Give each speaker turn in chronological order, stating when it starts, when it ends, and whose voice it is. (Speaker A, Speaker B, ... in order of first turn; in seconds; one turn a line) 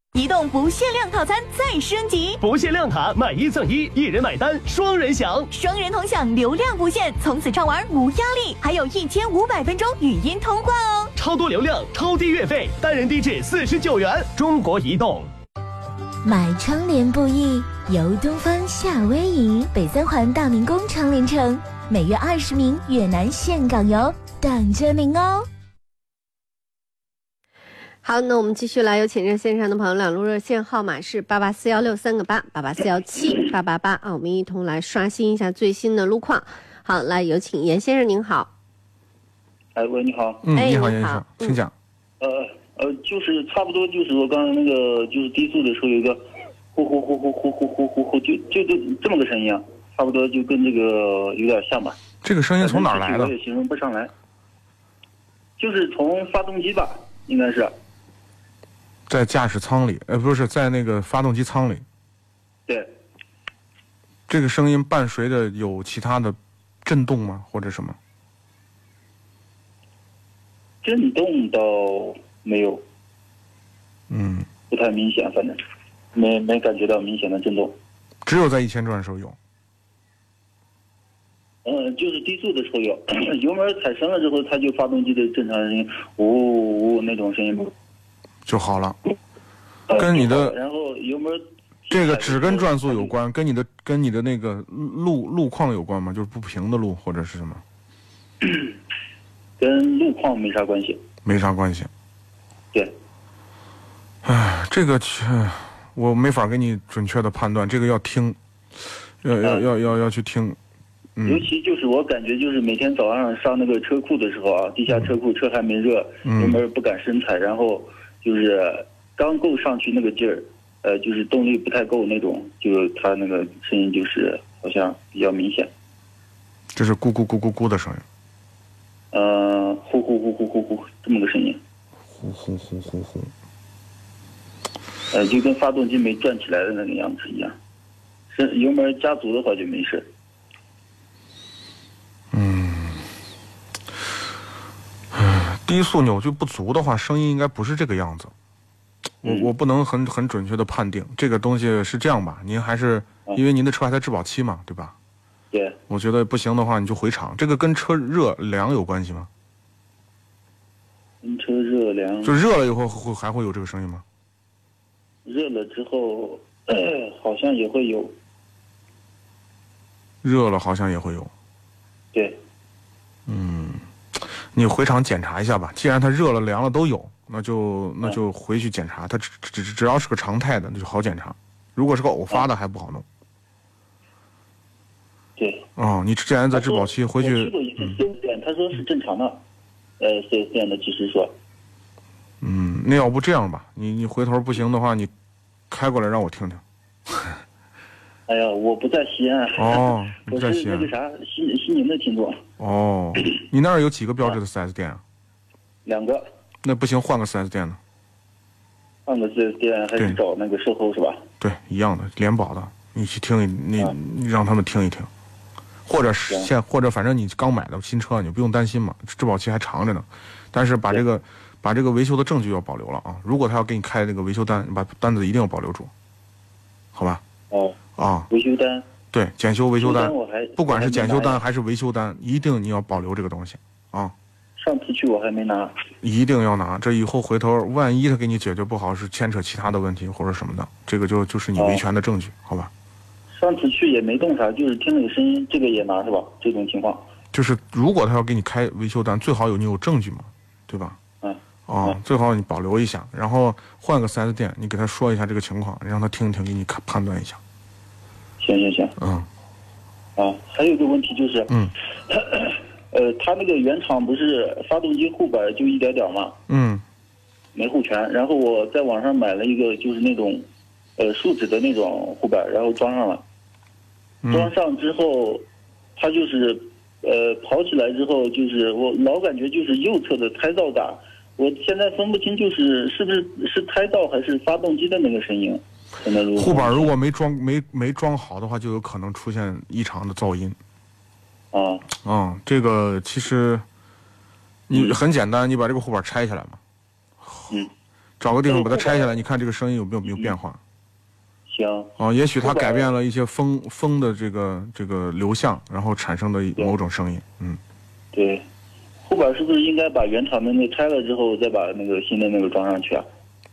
Speaker A: 0.1-2.4
Speaker B: 2.4-5.5
Speaker A: 5.5-11.1
Speaker B: 11.2-15.3
Speaker C: 16.2-25.4
Speaker D: 28.0-38.5
Speaker E: 39.8-40.4
Speaker F: 40.4-41.7
Speaker D: 40.6-41.6
Speaker E: 42.2-46.2
Speaker E: 46.7-52.0
Speaker F: 52.2-53.4
Speaker E: 52.6-54.1
Speaker E: 55.6-57.7
Speaker F: 59.1-61.9
Speaker F: 64.3-68.0
Speaker E: 70.8-72.8
Speaker F: 74.1-74.5
Speaker E: 74.7-75.6
Speaker E: 76.1-77.8
Speaker F: 78.2-79.4
Speaker E: 81.6-87.7
Speaker F: 88.5-89.0
Speaker E: 89.9-93.1
Speaker F: 89.9-90.6
Speaker F: 91.9-97.6
Speaker E: 98.4-98.7
Speaker E: 99.6-101.0
Speaker F: 101.2-101.9
Speaker F: 104.2-108.4
Speaker F: 109.2-110.6
Speaker E: 109.4-109.7
Speaker F: 111.2-111.5
Speaker E: 111.2-125.7
Speaker F: 116.2-116.6
Speaker F: 126.7-128.0
Speaker E: 129.1-131.6
Speaker F: 132.2-133.3
Speaker E: 135.1-137.6
Speaker E: 138.3-140.1
Speaker F: 142.3-143.1
Speaker F: 145.1-148.3
Speaker F: 149.2-155.0
Speaker E: 149.2-149.5
Speaker E: 155.5-155.8
Speaker F: 155.9-159.3
Speaker E: 161.2-162.4
Speaker F: 162.2-164.0
Speaker E: 165.2-168.2
Speaker F: 170.2-171.3
Speaker E: 172.1-172.4
Speaker F: 173.3-183.1
Speaker E: 185.4-185.7
Speaker F: 185.8-188.0
Speaker E: 186.5-189.4
Speaker E: 190.0-191.3
Speaker F: 192.4-195.1
Speaker F: 195.7-197.4
Speaker E: 198.3-202.4
Speaker F: 199.6-200.9
Speaker F: 202.6-205.0
Speaker E: 205.8-206.2
Speaker F: 206.6-207.8
Speaker E: 209.1-211.2
Speaker F: 211.4-215.1
Speaker F: 215.9-225.9
Speaker F: 226.9-227.2
Speaker E: 227.5-227.8
Speaker F: 228.0-228.3
Speaker E: 228.3-228.9
Speaker F: 229.1-234.1
Speaker E: 229.8-231.4
Speaker E: 234.6-235.7
Speaker F: 236.0-242.7
Speaker E: 241.6-241.8
Speaker E: 243.3-247.1
Speaker F: 247.3-251.0
Speaker E: 251.2-252.0
Speaker F: 251.7-257.4
Speaker E: 258.4-258.9
Speaker F: 259.0-259.3
Speaker E: 260.2-261.5
Speaker E: 262.1-266.4
Speaker F: 266.5-266.8
Speaker E: 267.6-273.2
Speaker F: 274.2-274.5
Speaker E: 274.3-275.4
Speaker E: 276.0-286.9
Speaker F: 286.4-290.6
Speaker E: 291.5-291.9
Speaker F: 292.0-293.6
Speaker F: 294.7-296.6
Speaker E: 294.7-295.0
Speaker F: 297.2-297.6
Speaker F: 298.2-300.6
Speaker E: 298.5-299.1
Speaker E: 300.1-300.4
Speaker E: 301.5-302.9
Speaker F: 302.0-307.6
Speaker E: 308.1-308.5
Speaker E: 309.0-313.1